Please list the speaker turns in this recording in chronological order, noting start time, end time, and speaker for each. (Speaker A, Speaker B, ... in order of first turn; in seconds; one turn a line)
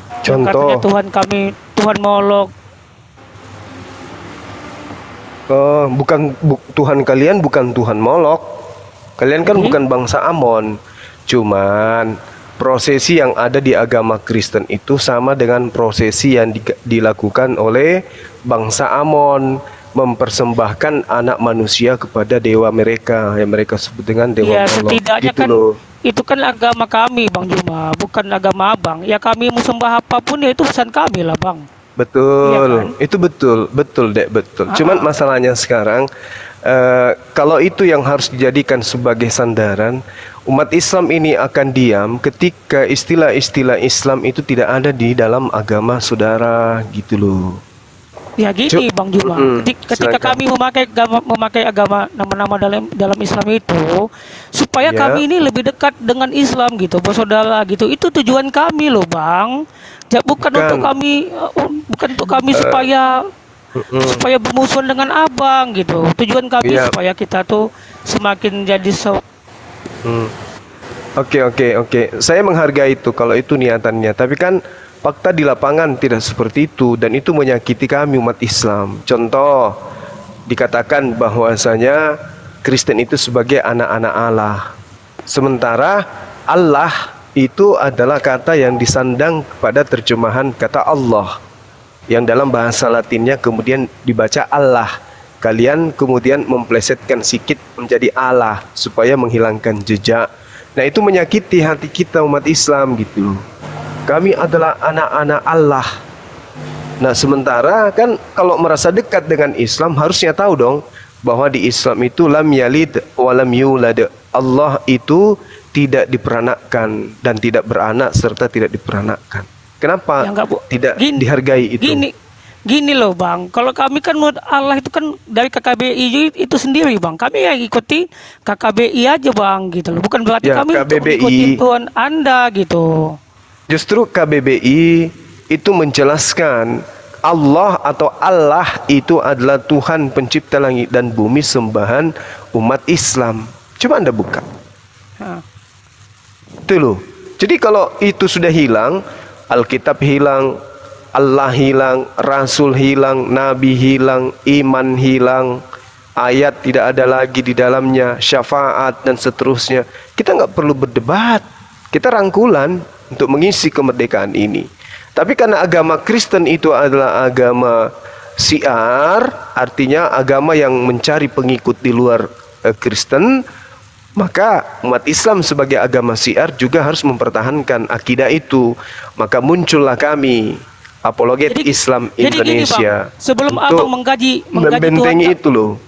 Speaker A: 0.2-0.8
Speaker B: 0.2-2.5
Speaker A: 5.5-8.4
Speaker A: 9.2-10.8
Speaker B: 9.4-9.8
Speaker A: 11.3-25.7
Speaker B: 24.4-31.6
Speaker A: 32.0-36.1
Speaker B: 32.4-32.9
Speaker B: 34.7-35.0
Speaker A: 36.7-47.6
Speaker B: 48.4-59.5
Speaker A: 48.7-50.4
Speaker A: 54.9-55.2
Speaker B: 60.1-63.1
Speaker A: 60.5-60.9
Speaker A: 62.5-62.8
Speaker A: 63.8-64.2
Speaker B: 64.0-69.2
Speaker A: 66.6-66.9
Speaker A: 70.0-70.3
Speaker A: 71.2-79.7
Speaker A: 80.5-82.0
Speaker A: 82.6-84.7
Speaker A: 85.3-91.3
Speaker A: 92.1-94.9
Speaker A: 95.4-103.4
Speaker A: 104.1-105.9
Speaker A: 107.0-122.0
Speaker B: 120.2-121.2
Speaker B: 121.8-122.1
Speaker B: 122.7-133.2
Speaker A: 130.4-131.6
Speaker A: 133.7-144.4
Speaker A: 146.7-150.5
Speaker A: 151.1-155.6
Speaker A: 156.2-167.9
Speaker A: 168.4-173.4
Speaker A: 174.2-183.9
Speaker B: 181.5-185.3
Speaker A: 184.6-185.7